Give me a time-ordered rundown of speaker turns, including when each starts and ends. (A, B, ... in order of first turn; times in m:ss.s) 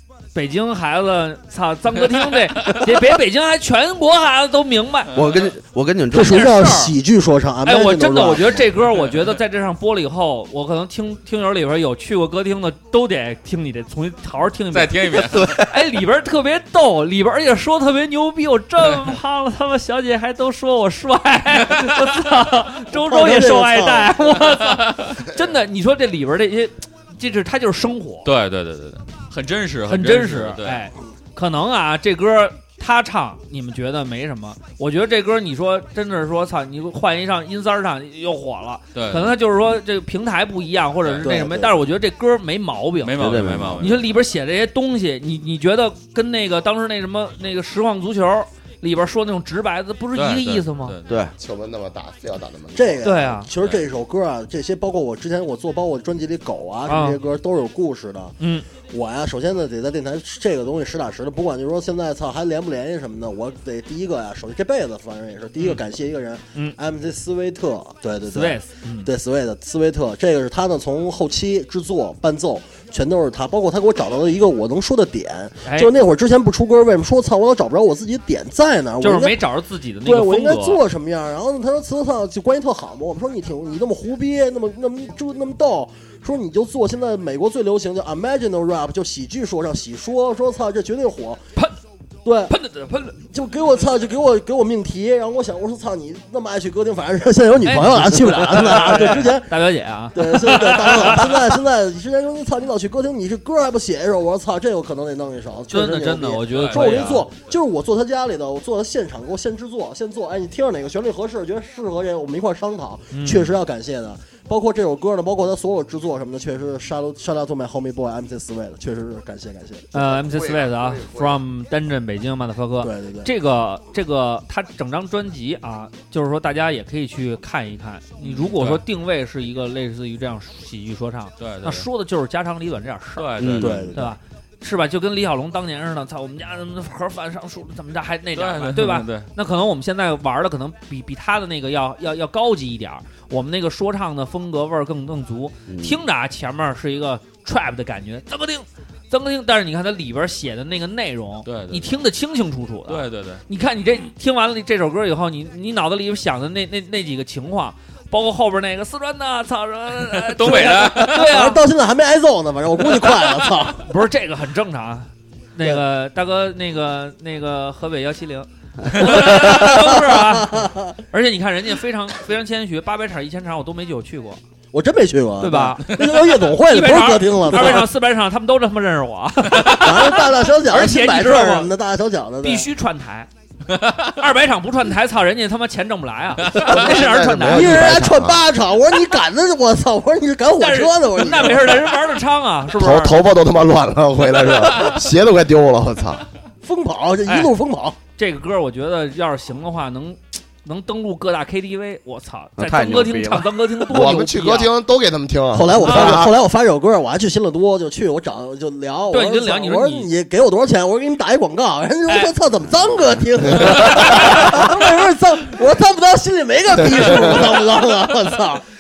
0:00.4-0:05.1 A
0:05.1-0:06.5 B
0:06.1-0:08.7 C
0:06.2-0:07.0 A
0:07.6-0:28.3 A
0:14.7-0:15.5 D
0:22.9-0:24.2 C
0:24.5-0:25.2 D
0:28.2-0:30.8 D
0:29.9-0:51.0 A
0:38.9-0:39.4 D
0:41.0-0:41.3 D
0:41.2-0:41.8 C
0:43.0-0:44.1 D
0:43.2-0:43.9 B
0:50.2-0:51.3 D
0:51.1-0:51.3 B
0:51.4-0:53.1 E
0:52.8-1:19.4 C
0:53.0-0:53.5 A
0:56.9-0:57.2 A
0:58.4-0:58.7 A
1:08.3-1:09.1 A
1:15.6-1:15.9 A
1:19.0-1:20.8 A
1:20.0-1:31.4 C
1:32.2-1:32.6 C
1:32.5-1:33.2 A
1:33.3-1:39.5 C
1:37.6-1:41.5 A
1:40.1-2:00.2 C
1:45.7-1:47.2 A
1:46.5-1:47.4 D
1:53.1-1:53.5 A
1:59.9-2:41.6 A
2:00.2-2:01.4 E
2:02.8-2:03.3 C
2:08.2-2:08.8 D
2:11.4-2:11.9 D
2:13.2-2:13.9 D
2:13.4-2:14.0 B
2:18.4-2:19.3 D
2:25.7-2:26.0 B
2:31.4-2:32.0 D
2:32.9-2:33.4 D
2:40.2-2:41.2 D
2:41.1-2:43.9 C
2:43.8-2:54.4 A
2:49.1-2:51.0 C
2:54.7-2:57.9 C
2:55.4-2:56.1 A
2:56.6-3:01.7 A
2:59.6-3:02.7 C
3:02.4-3:03.3 A
3:03.7-3:04.2 D
3:04.2-3:08.0 A
3:06.5-3:08.5 E
3:07.4-3:12.0 C
3:10.6-3:13.2 A
3:12.8-3:16.2 E
3:16.6-3:18.0 C
3:17.3-3:17.5 A
3:18.2-3:24.7 A
3:22.6-3:23.8 B
3:23.9-3:26.3 E
3:25.5-3:38.6 C
3:25.8-3:26.2 A
3:29.1-3:30.1 A
3:32.1-3:32.4 A
3:33.6-3:34.2 E
3:33.8-3:34.5 A
3:37.0-3:37.2 E